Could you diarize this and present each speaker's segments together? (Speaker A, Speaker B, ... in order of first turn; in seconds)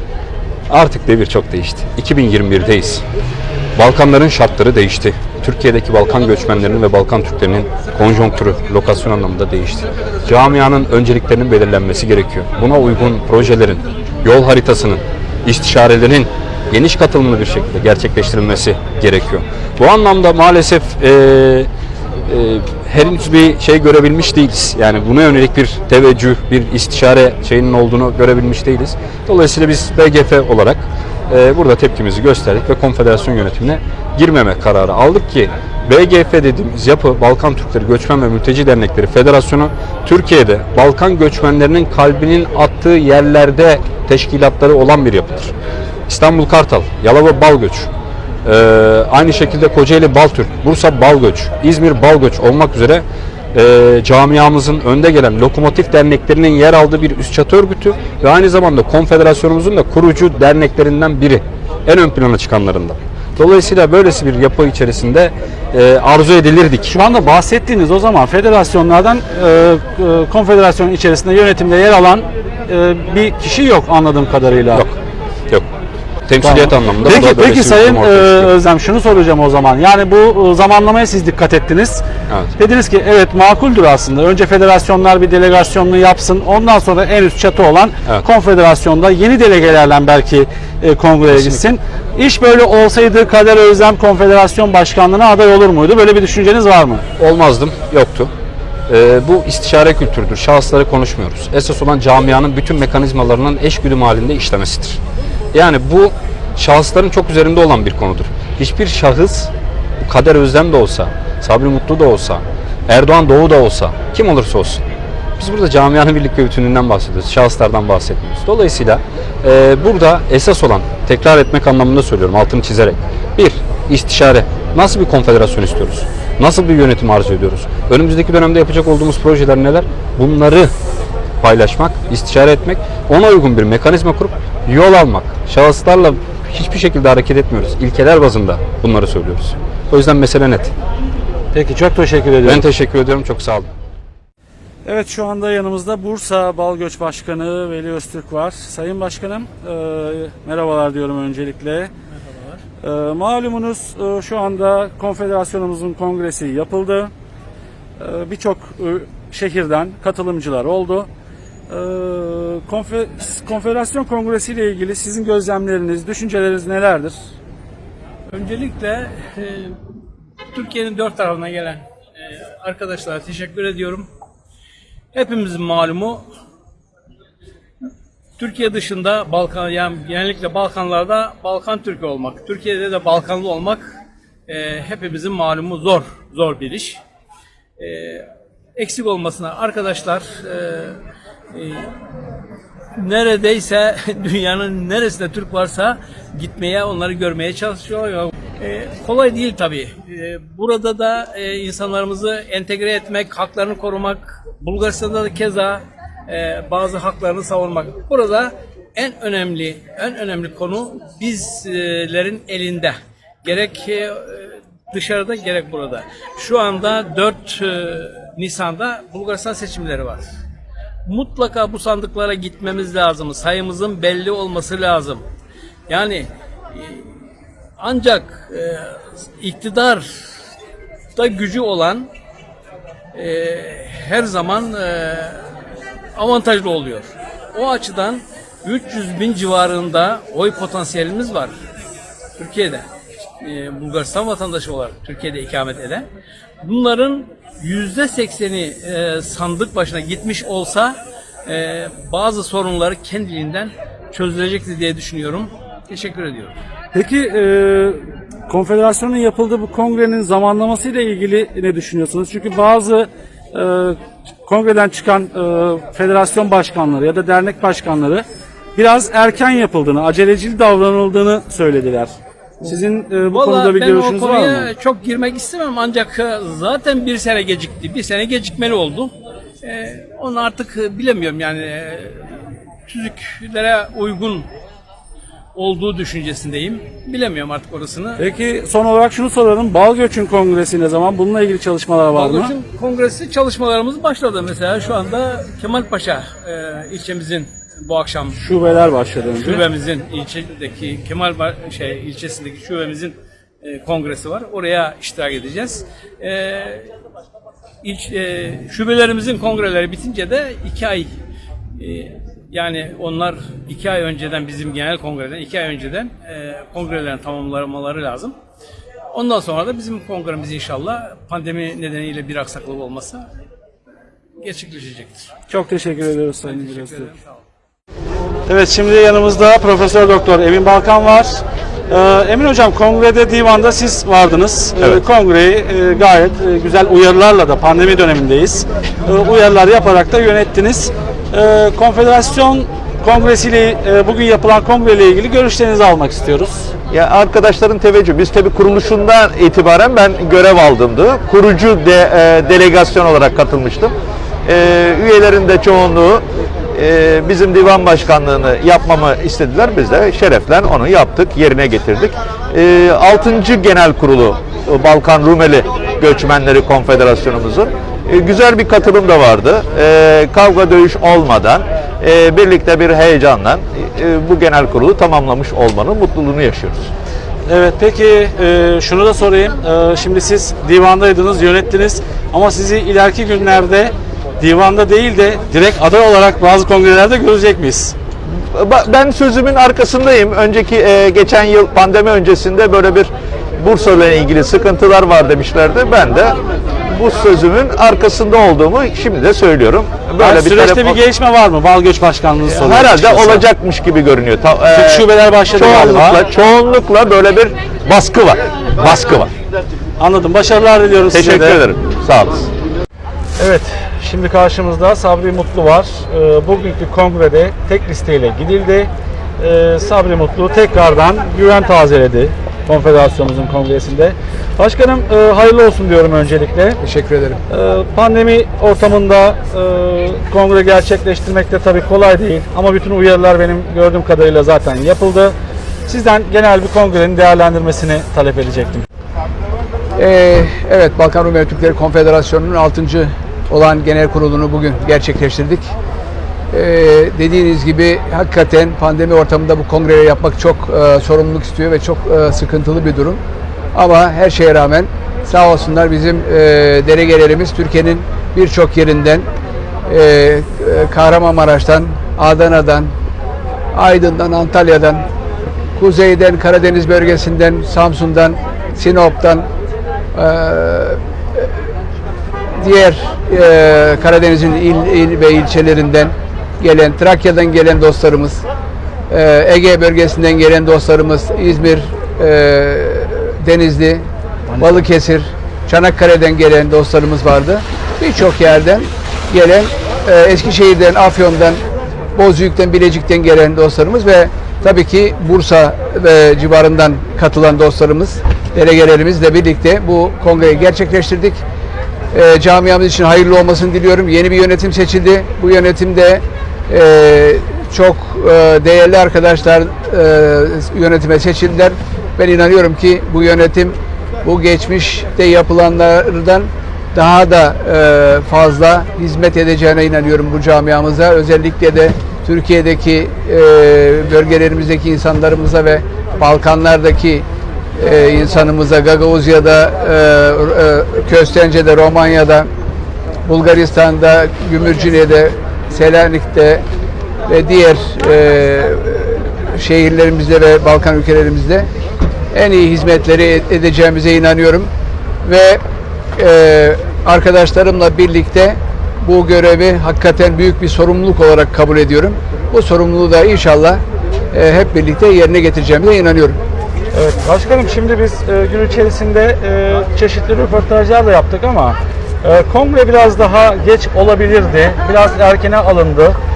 Speaker A: 0.7-3.0, 3.8-21.7, 22.2-45.5, 46.1-47.9, 48.4-66.9, 76.3-78.5, 91.3-91.6, 97.2-98.3, 98.9-105.0, 105.5-114.8, 115.4-130.7, 131.4-140.7, 142.4-143.7
Speaker B: 66.9-74.9, 76.4-82.0, 82.6-97.0, 141.5-142.6, 144.8-151.9, 152.8-157.1, 158.0-161.1, 161.7-167.3, 256.9-268.2, 268.8-272.1, 272.6-274.7, 288.2-292.5, 298.4-299.6, 325.5-327.1, 328.5-346.7, 377.5-387.9, 400.2-403.4, 404.7-406.2, 410.0-411.6, 413.4-426.8, 427.5-435.4, 435.9-438.9, 484.5-484.9, 556.9-566.2
Speaker C: 152.2-152.6, 168.3-169.8, 170.5-174.1, 175.1-176.2, 178.4-183.9, 184.5-187.0, 187.8-191.0, 191.5-191.9, 193.0-220.3, 221.1-225.2, 225.9-227.1, 227.8-230.3, 231.2-232.1, 233.1-235.4, 236.2-241.5, 242.4-242.8, 243.4-246.1, 246.6-256.6, 273.3-284.5, 285.6-288.2, 292.1-298.4, 299.4-306.9, 307.8-311.1, 311.8-318.4, 319.1-323.3, 324.4-325.3, 326.5-327.3
Speaker D: 346.9-376.9, 388.5-401.0, 402.4-409.3, 411.1-412.5
Speaker E: 426.8-427.4, 440.0-445.7, 446.5-453.2, 453.8-459.3, 459.9-462.9, 463.7-465.1, 465.8-469.5, 470.1-471.5, 472.6-478.4, 479.1-484.1, 484.6-491.6, 492.1-501.4, 502.1-527.3, 527.8-532.5, 533.2-536.6, 537.3-541.7, 542.3-544.7, 545.2-545.6, 546.1-556.4